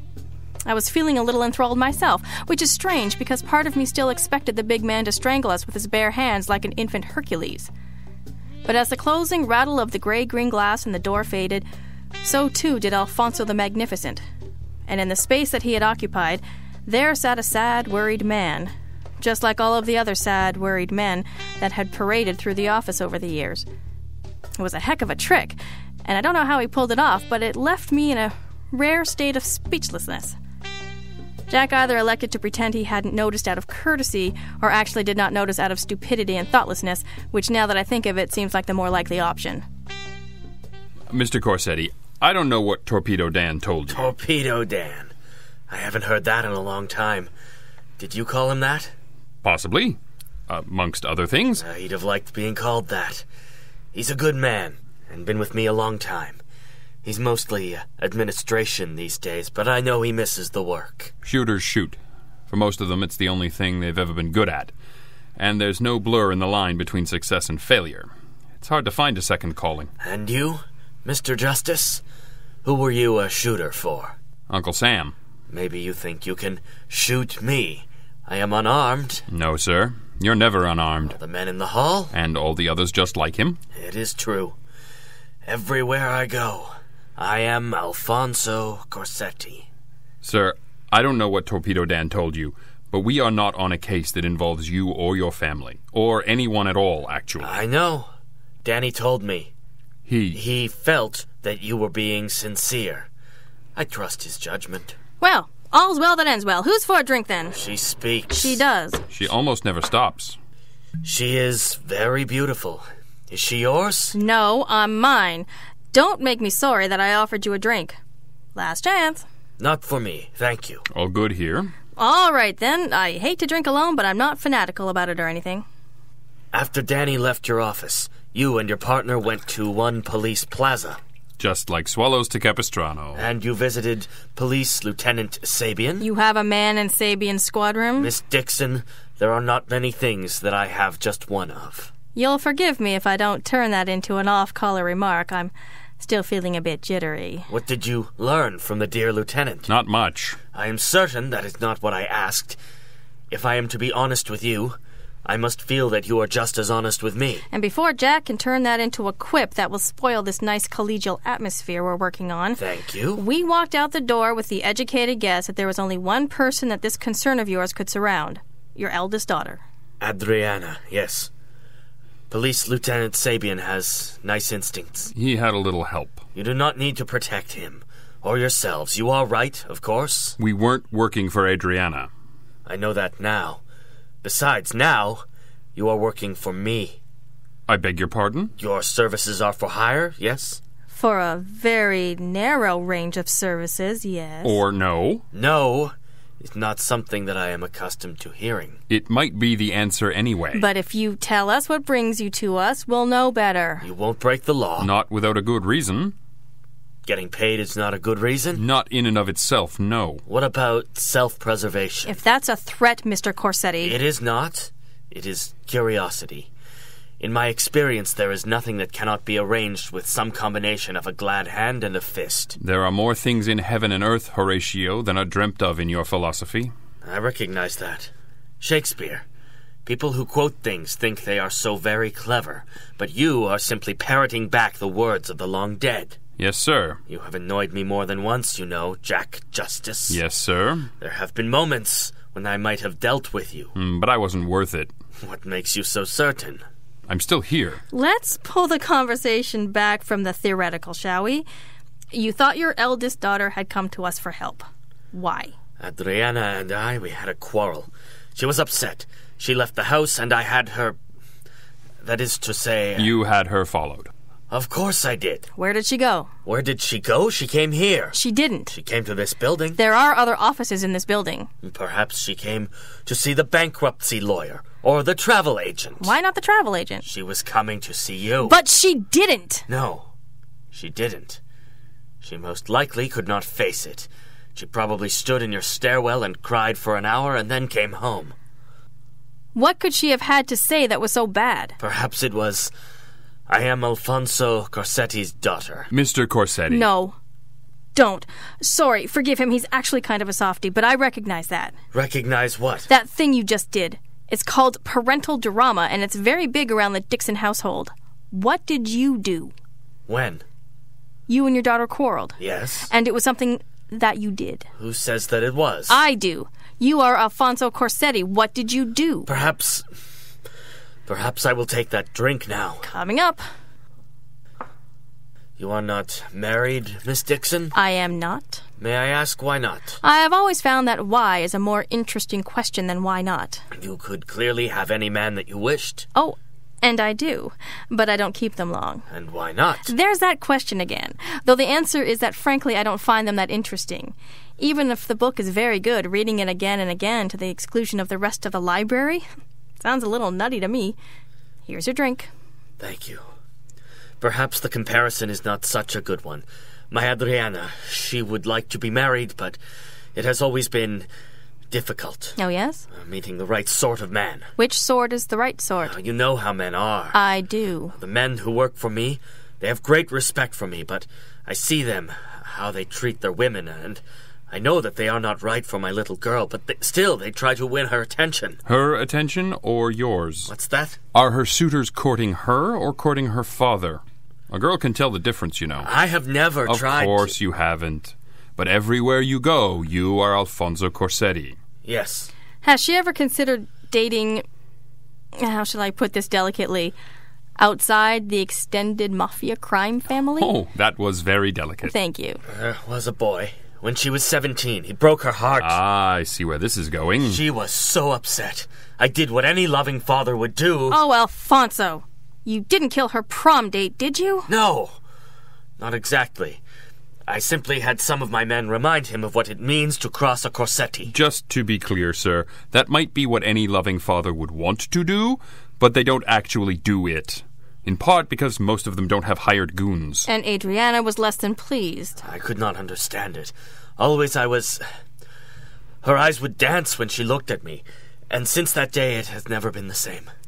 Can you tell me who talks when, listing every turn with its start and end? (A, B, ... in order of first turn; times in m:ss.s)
0:00.7-0:07.7 A
0:08.6-0:11.7 A
0:12.2-0:14.2 A
0:14.9-0:23.6 A
0:24.6-0:30.4 A
0:31.5-0:39.6 A
0:41.1-0:44.1 B
0:43.9-0:45.1 C
0:45.7-0:47.3 C
0:48.0-0:48.9 C
0:49.4-0:51.6 B
0:51.6-0:53.2 C
0:53.9-0:56.4 C
0:57.0-1:01.1 C
1:01.2-1:02.0 B
1:02.5-1:04.7 B
1:05.4-1:08.1 B
1:08.6-1:09.9 B
1:10.0-1:12.0 C
1:12.6-1:14.2 C
1:14.5-1:15.1 B
1:15.5-1:19.3 C
1:19.3-1:21.2 B
1:21.1-1:22.1 C
1:22.1-1:23.6 B
1:23.8-1:24.6 C
1:25.4-1:29.7 C
1:30.2-1:37.6 B
1:37.4-1:38.1 C
1:38.6-1:39.5 C
1:40.1-1:40.4 B
1:40.3-1:43.1 C
1:43.8-1:45.0 C
1:45.2-1:47.6 A
1:47.5-1:48.6 C
1:48.3-1:49.0 A
1:49.1-1:50.4 B
1:51.0-1:54.2 C
1:54.1-1:58.0 A
1:58.6-1:59.2 A
1:59.6-2:00.8 C
2:00.9-2:01.7 B
2:02.0-2:05.6 A
2:06.5-2:11.0 C
2:11.4-2:13.2 B
2:13.2-2:16.1 C
2:16.0-2:18.1 A
2:18.0-2:21.9 C
2:22.2-2:27.5 A
2:27.5-2:29.7 C
2:29.7-2:30.4 B
2:30.5-2:32.6 C
2:33.3-2:37.4 C
2:37.5-2:42.6 A
2:42.6-2:43.2 C
2:43.2-2:49.6 A
2:50.0-2:51.3 C
2:52.3-2:55.1 C
2:55.2-2:56.2 B
2:56.4-3:00.4 C
3:00.4-3:02.1 B
3:02.7-3:03.6 C
3:04.2-3:05.2 C
3:05.8-3:07.0 C
3:07.7-3:08.5 B
3:08.6-3:10.6 C
3:10.9-3:14.6 A
3:14.4-3:15.2 B
3:15.3-3:18.8 C
3:18.9-3:20.7 B
3:20.5-3:23.9 A
3:23.8-3:24.9 C
3:24.8-3:26.2 B
3:27.1-3:28.6 C
3:28.6-3:30.2 B
3:30.3-3:32.2 C
3:32.1-3:34.0 A
3:33.8-3:36.5 C
3:37.2-3:42.6 C
3:42.6-3:46.7 B
3:47.0-3:49.2 C
3:49.9-3:56.2 C
3:56.4-3:57.0 B
3:57.1-4:00.2 C
4:00.1-4:00.9 B
4:01.0-4:03.7 C
4:03.8-4:04.9 B
4:05.2-4:06.6 C
4:07.1-4:07.8 B
4:07.9-4:11.5 A
4:12.1-4:15.5 A
4:15.8-4:21.0 C
4:22.0-4:23.2 C
4:23.0-4:24.1 B
4:24.5-4:25.5 C
4:25.6-4:26.3 A
4:26.4-4:28.2 C
4:28.1-4:28.7 A
4:28.7-4:29.8 C
4:29.8-4:31.5 A
4:31.6-4:36.1 C
4:36.0-4:37.0 A
4:37.0-4:38.6 C
4:38.4-4:39.7 A
4:39.7-4:40.1 C
4:40.7-4:41.4 C
4:42.2-4:48.4 C
4:49.6-4:51.8 A
4:51.8-4:52.7 C
4:53.5-4:55.9 C
4:55.9-4:56.9 B
4:56.7-4:57.2 A
4:58.0-5:01.8 A
5:01.9-5:02.9 C
5:02.9-5:09.5 A
5:10.1-5:10.4 C
5:11.3-5:12.4 A
5:12.4-5:12.9 C
5:12.9-5:14.7 A
5:14.8-5:16.0 C
5:15.9-5:19.3 A
5:19.3-5:19.8 C
5:21.1-5:22.9 C
5:22.8-5:23.4 A
5:25.6-5:27.7 C
5:27.7-5:28.6 A
5:28.8-5:30.0 C
5:30.0-5:33.6 A
5:33.7-5:36.1 C
5:36.2-5:39.0 A
5:39.1-5:39.9 C
5:39.8-5:49.2 A
5:49.8-5:51.0 A
5:51.7-5:52.3 A
5:52.8-5:53.2 C
5:54.2-5:59.6 C
6:00.2-6:01.1 C
6:01.7-6:02.4 C
6:02.4-6:02.9 A
6:02.9-6:04.5 C
6:04.6-6:06.0 A
6:05.8-6:07.2 C
6:07.1-6:07.9 A
6:07.9-6:18.6 C
6:18.7-6:20.5 B
6:20.5-6:21.0 C
6:21.1-6:25.9 B
6:25.8-6:27.3 C
6:26.7-6:31.6 B
6:31.8-6:32.3 C
6:32.6-6:34.4 A
6:35.4-6:37.0 A
6:37.6-6:40.5 A
6:40.4-6:41.9 B
6:41.8-6:42.4 A
6:42.5-6:45.8 C
6:45.6-6:47.4 B
6:47.2-6:51.0 C
6:50.9-6:54.5 A
6:54.5-6:55.0 C
6:55.8-6:56.6 C
6:57.3-7:01.1 C
7:01.1-7:10.3 B
7:10.3-7:12.2 A
7:12.2-7:14.8 C
7:16.0-7:20.3 C